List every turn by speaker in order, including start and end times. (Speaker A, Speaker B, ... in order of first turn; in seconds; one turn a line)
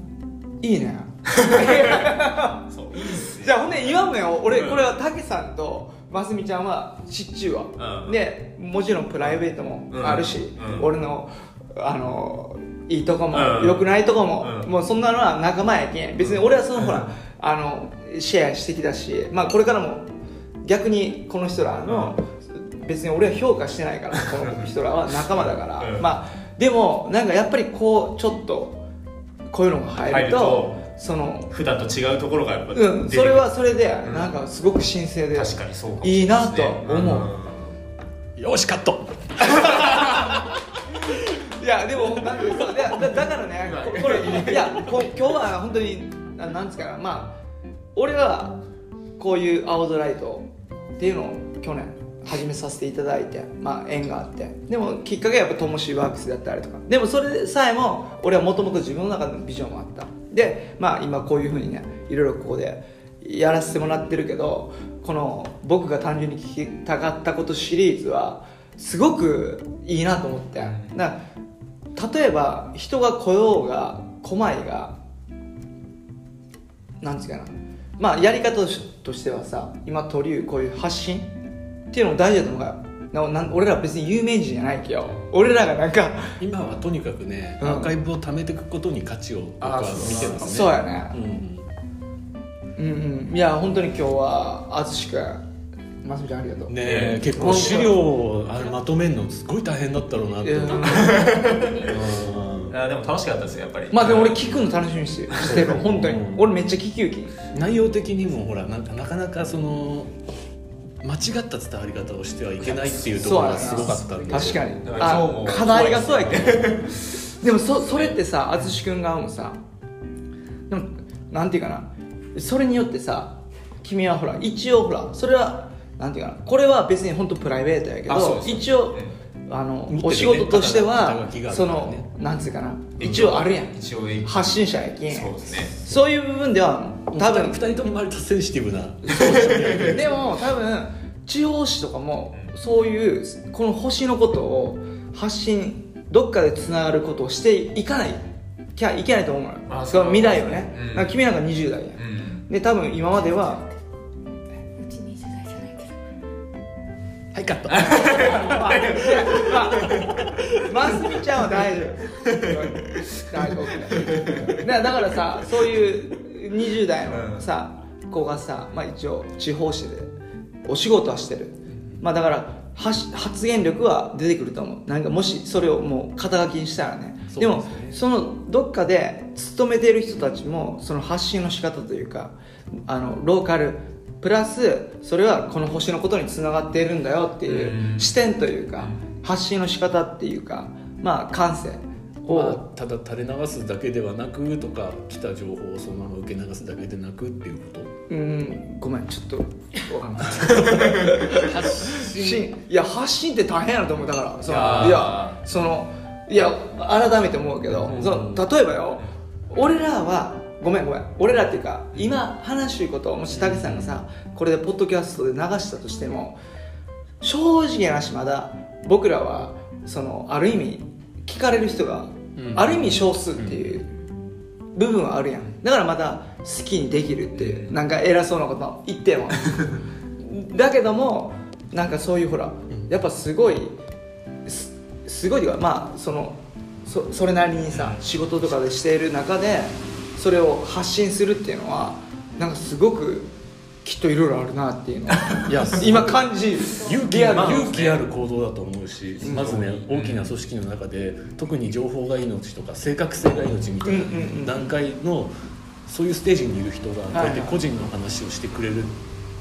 Speaker A: 0.6-20.1
Speaker B: 1.3-4.8
Speaker B: 7.8-8.2
Speaker B: 9.9-10.9
Speaker B: 13.3-14.7
Speaker B: 16.2-17.1
Speaker A: 20.6-28.8
Speaker B: 21.9-22.1
Speaker B: 24.2-24.5
Speaker B: 25.3-26.1
Speaker A: 29.5-31.5
Speaker B: 30.0-30.8
Speaker B: 31.5-34.4
Speaker A: 32.7-37.3
Speaker B: 35.3-37.8
Speaker C: 38.4-40.3
Speaker A: 39.5-40.3
Speaker A: 41.1-47.4
Speaker C: 42.4-42.7
Speaker B: 43.6-45.1
Speaker A: 47.9-48.6
Speaker A: 49.2-71.2
Speaker B: 70.6-71.0
Speaker A: 71.9-75.0
Speaker A: 77.0-81.3
Speaker A: 81.9-86.4
Speaker C: 86.4-91.7
Speaker A: 87.6-87.9
Speaker B: 89.6-90.7
Speaker A: 90.3-91.2
Speaker A: 92.8-95.4
Speaker A: 96.0-98.0
Speaker C: 96.7-101.1
Speaker B: 96.8-97.9
Speaker D: 98.5-98.8
Speaker A: 100.4-101.2
Speaker D: 100.7-102.0
Speaker B: 100.8-105.7
Speaker C: 101.8-102.8
Speaker A: 103.9-107.3
Speaker C: 105.4-106.5
Speaker C: 107.5-110.1
Speaker C: 111.0-114.8
Speaker B: 112.7-117.3
Speaker A: 113.2-116.8
Speaker A: 117.4-119.6
Speaker B: 117.8-118.6
Speaker A: 120.7-137.6
Speaker B: 128.1-129.1
Speaker C: 129.9-132.1
Speaker B: 133.0-135.8
Speaker C: 137.1-140.4
Speaker B: 139.1-140.0
Speaker A: 139.8-148.2
Speaker A: 148.7-153.7
Speaker B: 149.7-151.2
Speaker B: 151.9-152.4
Speaker D: 154.8-156.0
Speaker C: 157.3-160.5
Speaker B: 157.7-160.2
Speaker A: 158.0-160.1
Speaker A: 160.6-170.1
Speaker B: 162.1-163.2
Speaker B: 163.9-164.6
Speaker B: 167.1-167.4
Speaker A: 170.6-182.3
Speaker C: 177.3-178.0
Speaker A: 182.8-192.6
Speaker B: 187.4-188.2
Speaker B: 188.8-189.1
Speaker C: 192.3-197.9
Speaker A: 198.1-216.4
Speaker C: 200.4-202.5
Speaker B: 200.5-201.2
Speaker B: 204.4-205.4
Speaker C: 204.6-205.0
Speaker C: 207.7-208.4
Speaker B: 211.9-212.2
Speaker B: 213.3-213.8
Speaker A: 217.2-223.9
Speaker C: 222.3-223.8
Speaker A: 224.7-229.6
Speaker B: 227.3-227.8
Speaker A: 230.2-233.8
Speaker A: 234.4-243.3
Speaker B: 237.7-238.0
Speaker A: 243.8-247.7
Speaker B: 245.2-245.6
Speaker C: 245.4-255.3
Speaker B: 247.2-248.0
Speaker B: 249.2-250.3
Speaker A: 253.8-254.7
Speaker C: 255.8-259.0
Speaker A: 257.1-257.6